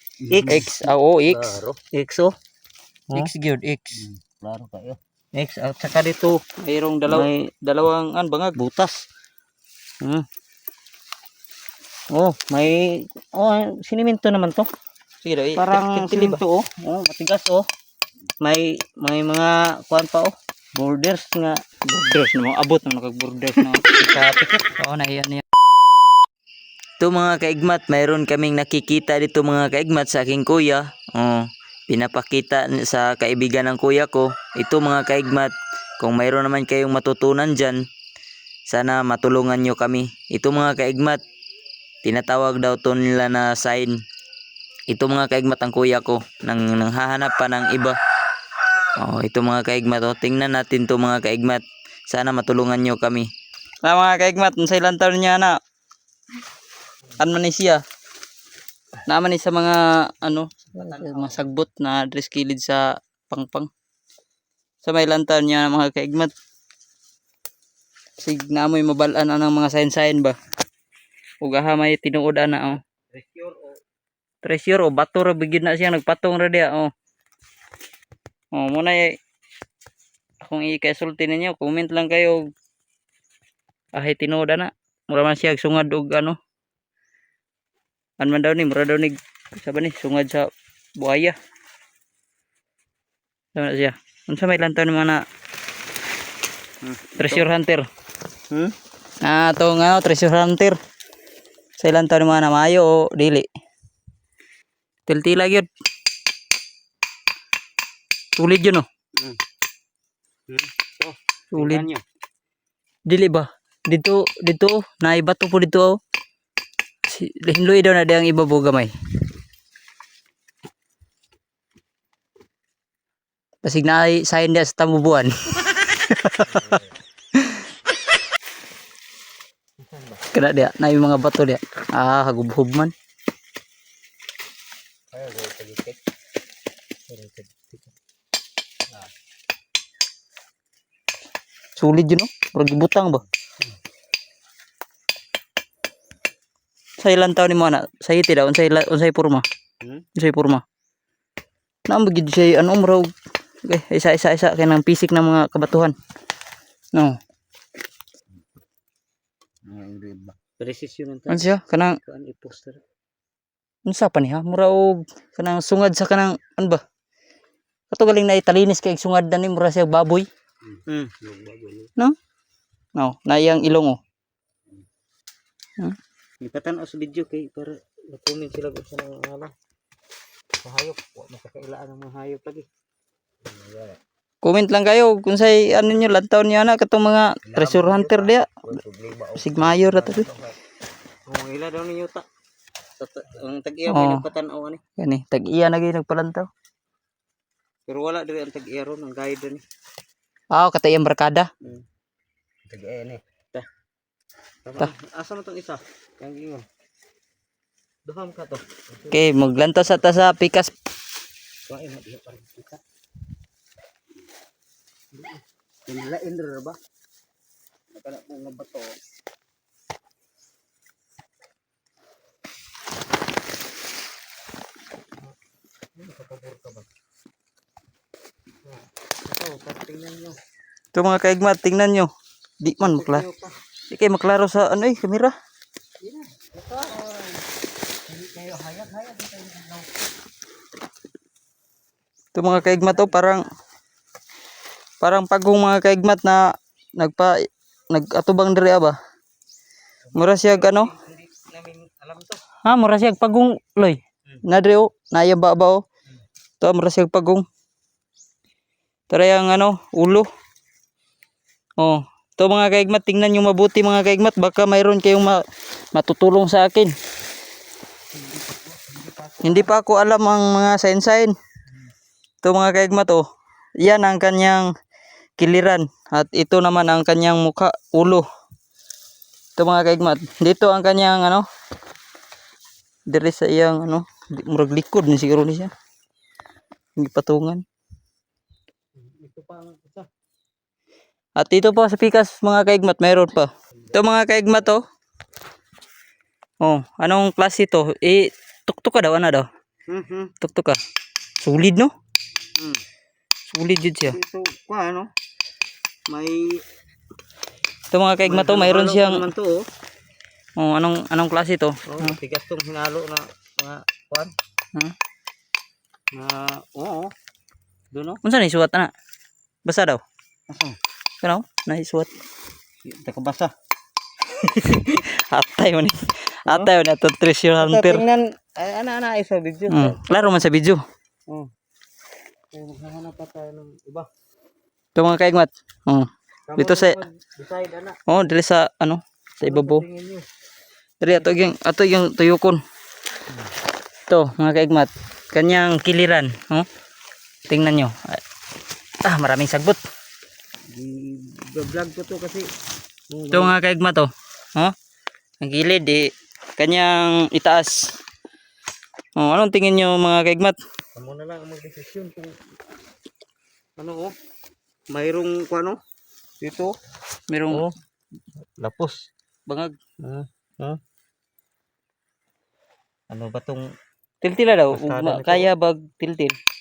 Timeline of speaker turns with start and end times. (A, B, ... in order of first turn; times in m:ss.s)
0:00.3-0:00.7 A
0:00.5-0:01.6 B
0:01.6-0:02.3 A
0:03.1-0:04.0 B
0:04.3-0:06.4 A
0:06.6-0:08.6 B
0:07.1-0:07.4 A
0:08.6-0:09.0 A
0:12.1-0:14.7 A
0:15.2-0:16.4 B
0:15.6-0:17.6 A
0:18.4-0:21.6 A
0:21.9-0:23.8 B
0:23.9-0:24.7 A
0:24.8-0:25.4 B
0:27.0-0:37.8 C
0:38.7-0:41.2 C
0:42.0-0:44.0 C
0:44.9-0:48.0 C
0:49.0-0:53.3 C
0:53.8-0:55.6 B
0:57.2-0:57.8 B
0:59.0-1:03.7 B
1:00.8-1:01.4 A
1:04.8-1:06.3 B
1:08.2-1:10.4 B
1:11.4-1:12.8 B
1:13.1-1:13.8 A
1:14.4-1:16.9 B
1:18.5-1:19.1 B
1:20.4-1:22.4 B
1:23.9-1:26.4 B
1:28.2-1:31.4 B
1:33.6-1:35.2 B
1:36.8-1:37.5 A
1:37.2-1:37.9 B
1:39.2-1:40.8 B
1:41.8-1:43.5 B
1:45.1-1:45.7 B
1:48.4-1:48.8 B
1:50.5-1:52.0 A
1:51.5-1:51.8 B
1:53.1-1:56.0 B
1:57.1-1:58.9 B
2:03.6-2:06.8 B
2:06.4-2:06.8 A
2:09.8-2:10.2 A
2:10.3-2:12.9 B
2:15.1-2:16.0 A
2:17.1-2:17.9 A
2:21.8-2:23.2 B
2:27.0-2:29.4 B
2:30.2-2:30.6 B
2:31.9-2:33.1 B
2:33.7-2:35.9 B
2:39.7-2:42.8 A
2:41.3-2:42.0 B
2:43.8-2:46.8 B
2:47.9-2:50.3 B
2:50.7-2:51.9 A
2:53.0-2:54.0 B
2:56.4-2:59.5 A
3:00.6-3:02.7 A
3:03.5-3:04.0 A
3:04.4-3:08.6 B
3:07.4-3:10.5 A
3:09.4-3:10.3 B
3:11.3-3:12.2 A
3:13.0-3:14.8 A
3:13.9-3:14.2 B
3:15.0-3:16.5 B
3:17.9-3:19.6 A
3:20.5-3:21.5 B
3:22.7-3:23.7 A
3:24.6-3:26.6 A
3:28.0-3:29.2 A
3:29.1-3:30.7 B
3:31.7-3:32.8 A
3:35.1-3:36.8 A
3:37.9-3:38.9 A
3:46.0-3:46.9 A
3:48.6-3:50.4 A
3:50.9-3:53.2 B
3:52.8-3:53.5 A
3:53.9-3:55.3 B
3:56.0-3:57.4 A
3:58.1-4:00.0 A
4:02.3-4:03.4 B
4:02.6-4:03.1 A
4:05.0-4:07.3 B
4:07.9-4:09.0 B
4:10.1-4:12.4 A
4:10.2-4:10.9 B
4:12.6-4:15.8 B
4:16.6-4:17.4 B
4:19.1-4:20.3 B
4:21.8-4:26.9 B
4:28.3-4:29.7 A
4:29.4-4:31.3 B
4:32.4-4:33.2 B
4:33.8-4:34.7 B
4:35.4-4:38.2 B
4:39.6-4:41.4 B
4:43.1-4:45.7 B
4:47.0-4:47.6 B
4:49.0-4:50.1 A
4:51.4-4:54.8 B
4:56.6-4:59.5 B
4:59.9-5:00.3 A
5:00.4-5:00.8 B
5:01.4-5:01.9 B
5:02.6-5:02.8 A
5:03.5-5:04.2 B
5:04.0-5:05.1 A
5:06.1-5:06.6 A
5:07.9-5:09.2 B
5:08.2-5:09.6 A
5:10.6-5:12.2 B
5:11.9-5:14.3 A
5:16.1-5:17.1 A
5:17.9-5:18.2 A
5:18.2-5:18.9 B
5:19.6-5:20.0 B
5:20.5-5:20.8 A
5:21.2-5:22.1 B
5:22.8-5:23.5 A
5:24.6-5:24.9 A
5:24.7-5:28.0 B
5:27.6-5:30.3 A
5:29.7-5:30.8 B
5:32.5-5:34.1 A
5:35.0-5:36.9 B
5:36.5-5:38.0 A
5:38.1-5:39.8 B
5:39.4-5:40.2 A
5:41.0-5:42.6 B
5:44.1-5:46.7 B
5:47.5-5:48.2 B
5:49.0-5:49.8 B
5:50.7-5:52.5 A
5:53.1-5:53.5 A
5:53.3-5:54.7 B
5:55.4-5:58.0 B
5:59.2-6:00.6 B
6:00.9-6:02.3 A
6:03.8-6:04.1 A
6:04.9-6:05.8 A
6:06.4-6:06.7 A
6:07.3-6:07.6 B
6:08.6-6:09.0 A
6:09.5-6:09.7 B
6:10.0-6:10.8 A
6:13.1-6:13.7 A
6:14.2-6:16.4 B
6:14.7-6:15.5 A